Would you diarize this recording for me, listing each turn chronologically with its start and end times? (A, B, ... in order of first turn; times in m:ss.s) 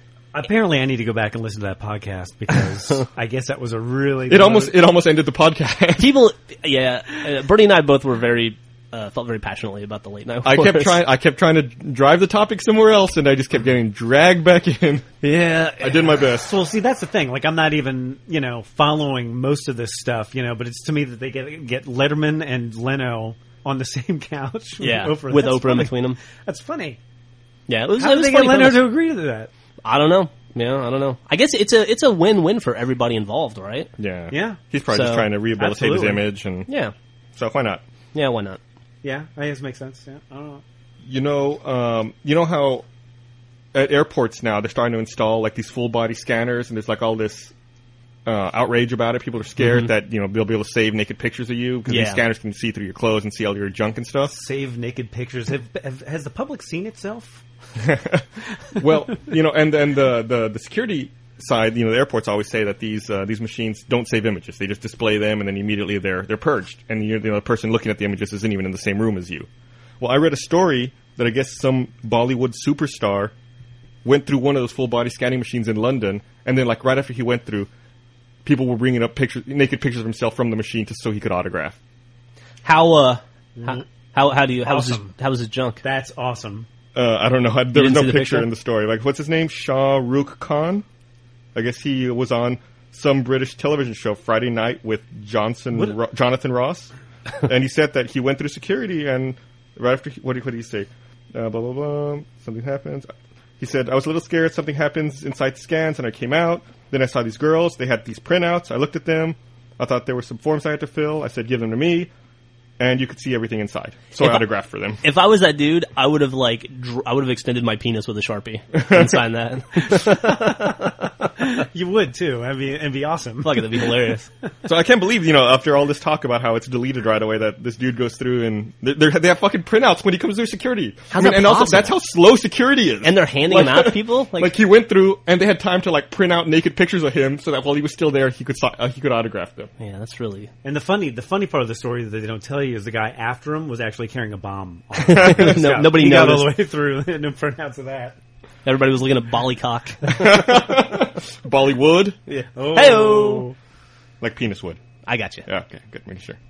0:00.3-0:04.8 A
0:04.3-0:06.2 B
0:06.0-0:11.0 C
0:10.4-0:15.1 B
0:15.2-0:15.8 C
0:15.8-0:16.6 B
0:15.8-0:27.0 A
0:24.8-0:26.2 C
0:27.7-0:28.9 C
0:28.0-0:29.5 A
0:29.8-0:33.9 C
0:34.0-0:36.7 B
0:34.3-0:34.6 A
0:34.9-0:35.3 C
0:35.6-0:36.2 A
0:36.7-0:36.9 C
0:37.4-0:37.8 B
0:38.1-0:38.6 C
0:39.0-0:40.6 A
0:41.0-0:42.8 B
0:43.7-0:47.5 B
0:48.3-0:54.3 B
0:49.6-0:49.9 C
0:51.9-0:52.2 C
0:54.3-0:57.4 A
0:57.8-1:09.5 B
1:10.0-1:13.3 B
1:14.0-1:17.7 B
1:18.4-1:21.8 B
1:22.6-1:25.8 C
1:23.6-1:23.8 A
1:24.6-1:25.1 A
1:25.8-1:26.7 A
1:27.0-1:30.8 B
1:27.7-1:28.5 C
1:31.6-1:36.9 B
1:37.4-1:52.1 B
1:52.8-1:55.0 B
1:54.2-1:54.4 C
1:55.0-2:01.1 C
1:58.8-1:59.2 B
2:00.2-2:00.6 A
2:01.4-2:03.9 A
2:03.4-2:04.3 C
2:04.6-2:19.7 B
2:11.1-2:11.9 C
2:13.0-2:14.5 C
2:19.8-2:20.5 C
2:20.6-2:28.2 A
2:25.0-2:26.5 C
2:28.6-2:30.5 C
2:30.1-2:32.2 B
2:32.3-2:33.5 C
2:32.6-2:33.6 A
2:34.2-2:34.8 B
2:35.1-2:35.5 C
2:35.5-2:36.4 B